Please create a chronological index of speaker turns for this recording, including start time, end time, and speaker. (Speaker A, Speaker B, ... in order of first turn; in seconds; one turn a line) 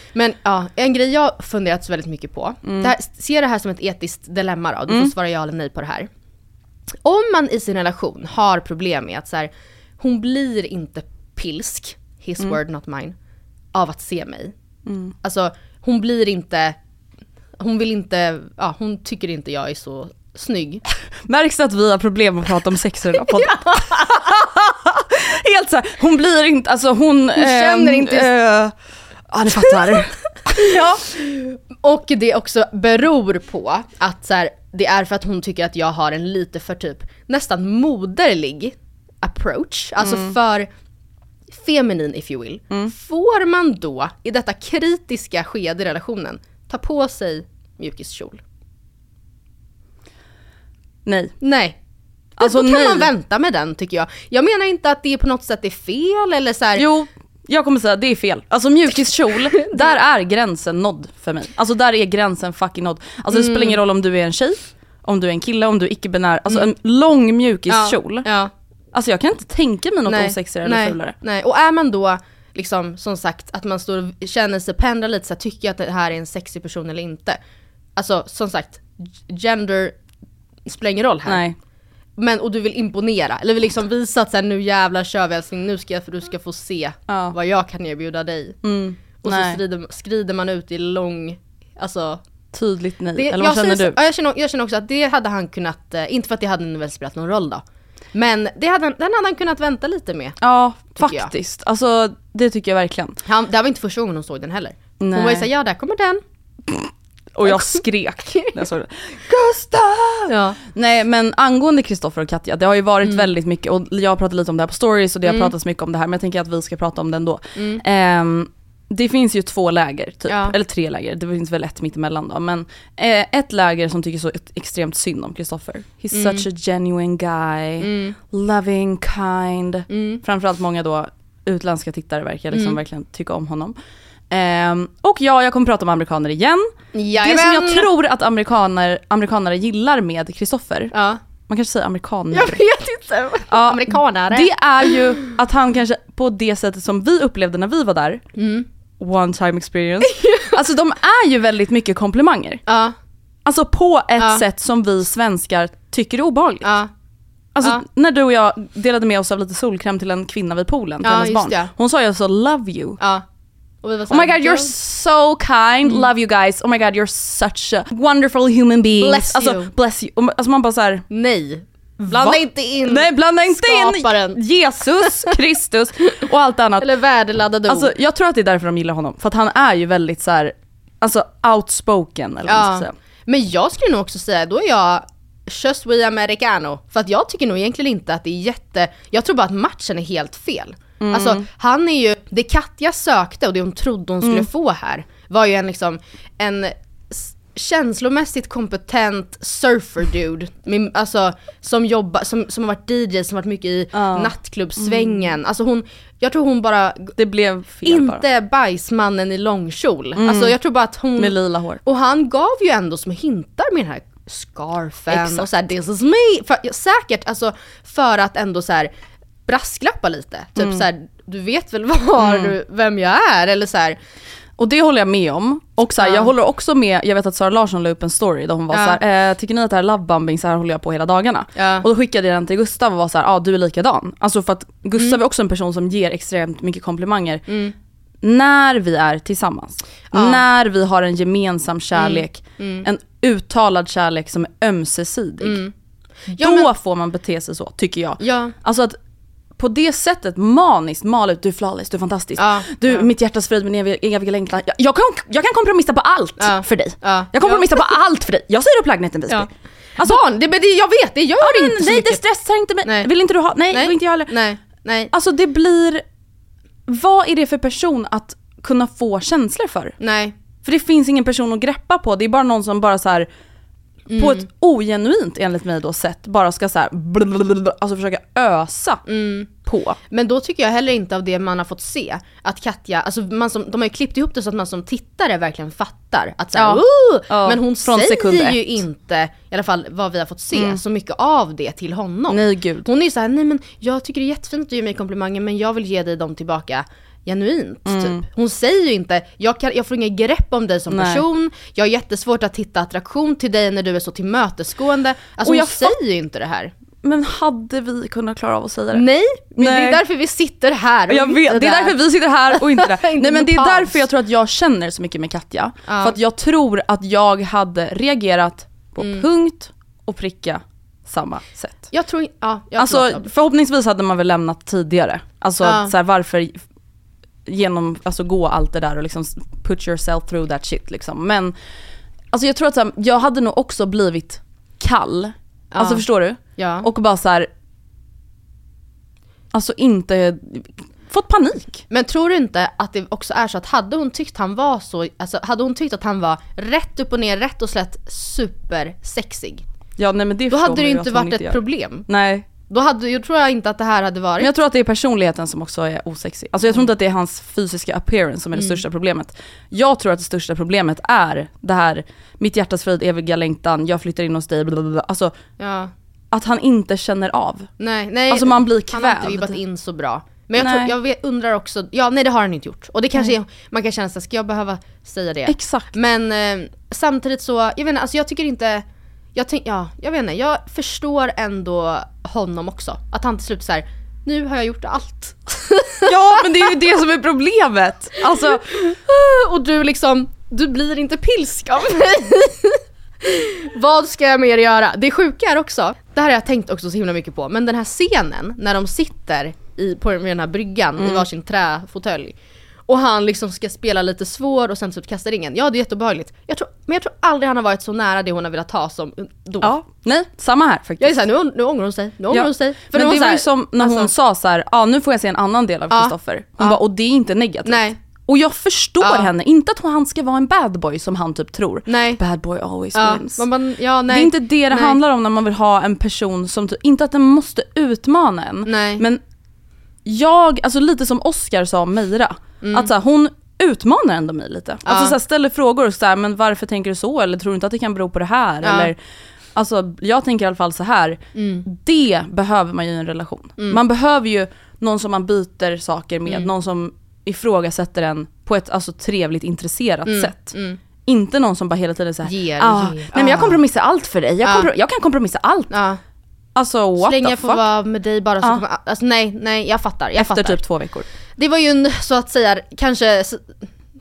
Speaker A: 0.1-6.1
Speaker B: 2.6-2.9
Speaker A: 7.0-13.2
Speaker A: 13.7-14.5
Speaker B: 14.9-15.1
Speaker A: 15.2-16.8
Speaker A: 17.6-20.8
Speaker B: 21.2-28.8
Speaker A: 23.3-24.3
Speaker A: 27.4-28.3
Speaker B: 29.3-31.0
Speaker A: 29.5-40.7
Speaker B: 40.0-40.4
Speaker A: 41.5-48.4
Speaker B: 51.0-51.4
Speaker A: 51.4-51.8
Speaker B: 52.4-53.1
Speaker A: 52.4-56.9
Speaker B: 56.8-68.3
Speaker A: 59.5-59.9
Speaker A: 63.3-63.8
Speaker A: 67.7-68.5
Speaker B: 68.9-71.1
Speaker A: 70.0-77.4
Speaker A: 78.0-80.0
Speaker A: 80.7-81.4
Speaker B: 81.3-81.6
Speaker A: 82.2-88.6
Speaker B: 87.1-87.3
Speaker B: 88.6-89.6
Speaker A: 89.2-92.2
Speaker B: 92.5-94.0
Speaker A: 93.1-100.4
Speaker B: 100.4-103.2
Speaker A: 100.9-101.3
Speaker A: 103.2-106.2
Speaker B: 105.0-105.5
Speaker B: 106.7-133.8
Speaker A: 107.4-108.5
Speaker A: 110.3-110.6
Speaker A: 115.2-115.5
Speaker A: 117.5-117.8
Speaker A: 120.3-120.5
Speaker A: 126.1-126.4
Speaker A: 127.8-128.2
Speaker A: 129.9-130.2
Speaker A: 132.5-132.8
Speaker B: 134.3-140.9
Speaker A: 136.9-137.9
Speaker A: 140.9-141.2
Speaker B: 141.5-142.6
Speaker A: 142.3-145.2
Speaker B: 143.5-148.2
Speaker A: 148.4-148.7
Speaker B: 149.0-152.6
Speaker A: 150.1-150.6
Speaker A: 152.7-152.9
Speaker B: 153.4-156.7
Speaker A: 154.2-154.4
Speaker A: 156.6-156.9
Speaker B: 157.5-163.0
Speaker A: 161.0-161.7
Speaker A: 163.0-163.2
Speaker A: 163.8-164.7
Speaker B: 164.1-171.1
Speaker A: 169.0-169.7
Speaker A: 171.1-174.4
Speaker B: 172.1-176.9
Speaker A: 175.0-175.3
Speaker A: 176.8-177.9
Speaker B: 177.7-182.9
Speaker A: 182.4-207.2
Speaker B: 191.0-191.4
Speaker B: 203.9-205.3
Speaker B: 207.2-208.2
Speaker A: 207.8-218.9
Speaker B: 210.2-210.6
Speaker B: 211.2-211.8
Speaker B: 215.1-215.5
Speaker A: 219.4-224.0
Speaker B: 220.6-220.8
Speaker B: 222.2-222.5
Speaker B: 224.6-237.4
Speaker A: 226.0-226.3
Speaker A: 228.7-229.0
Speaker A: 231.6-231.9
Speaker A: 237.5-237.7
Speaker B: 238.2-245.6
Speaker A: 240.1-240.4
Speaker A: 241.9-242.9
Speaker A: 245.4-245.7
Speaker A: 246.3-246.7
Speaker B: 246.3-249.0
Speaker A: 248.2-248.5
Speaker B: 249.6-260.2
Speaker A: 252.4-253.1
Speaker A: 256.4-257.9
Speaker A: 259.3-262.2
Speaker B: 261.4-264.4
Speaker A: 262.8-263.1
Speaker A: 263.7-265.1
Speaker B: 265.1-266.0
Speaker B: 266.9-269.9
Speaker A: 270.0-270.4
Speaker B: 270.6-273.3
Speaker A: 274.1-274.5
Speaker B: 274.2-280.0
Speaker A: 279.1-279.5
Speaker A: 280.1-306.7
Speaker B: 286.5-288.8
Speaker B: 290.5-290.8
Speaker B: 292.3-292.9
Speaker B: 297.9-298.2
Speaker B: 300.9-301.2
Speaker B: 305.4-306.0
Speaker B: 307.0-309.0
Speaker A: 308.9-312.0
Speaker B: 309.6-310.0
Speaker B: 311.1-321.9
Speaker A: 312.5-314.0
Speaker A: 315.9-316.2
Speaker A: 319.0-319.2
Speaker A: 321.9-323.3
Speaker B: 322.8-326.6
Speaker A: 325.6-325.9
Speaker B: 327.4-331.6
Speaker B: 332.3-337.5
Speaker A: 335.7-336.9
Speaker B: 339.5-341.9
Speaker A: 341.9-349.6
Speaker B: 350.0-352.4
Speaker A: 350.5-352.1
Speaker A: 352.7-354.5
Speaker B: 354.4-365.4
Speaker A: 358.5-358.8
Speaker A: 365.6-365.9
Speaker B: 366.3-367.7
Speaker A: 367.8-386.8
Speaker B: 368.3-369.6
Speaker B: 370.6-370.9
Speaker B: 375.4-375.9
Speaker B: 386.1-388.7
Speaker A: 388.4-402.4
Speaker B: 401.0-401.3
Speaker A: 402.9-409.8
Speaker B: 409.6-411.2
Speaker A: 411.0-414.1
Speaker B: 412.3-423.4
Speaker A: 415.9-416.8
Speaker A: 417.6-417.9
Speaker A: 419.0-419.3
Speaker A: 421.9-422.2
Speaker A: 422.9-425.0
Speaker B: 424.1-429.2
Speaker A: 428.6-429.0
Speaker B: 430.0-439.0
Speaker A: 432.6-432.9
Speaker A: 434.9-435.1
Speaker A: 438.6-438.9
Speaker B: 439.5-450.5
Speaker A: 441.4-441.6
Speaker A: 450.1-450.8
Speaker B: 451.0-455.8
Speaker A: 452.2-453.6
Speaker A: 454.4-454.7
Speaker A: 455.7-456.0
Speaker B: 456.5-457.6
Speaker A: 457.0-460.6
Speaker B: 460.1-461.1
Speaker A: 461.4-463.6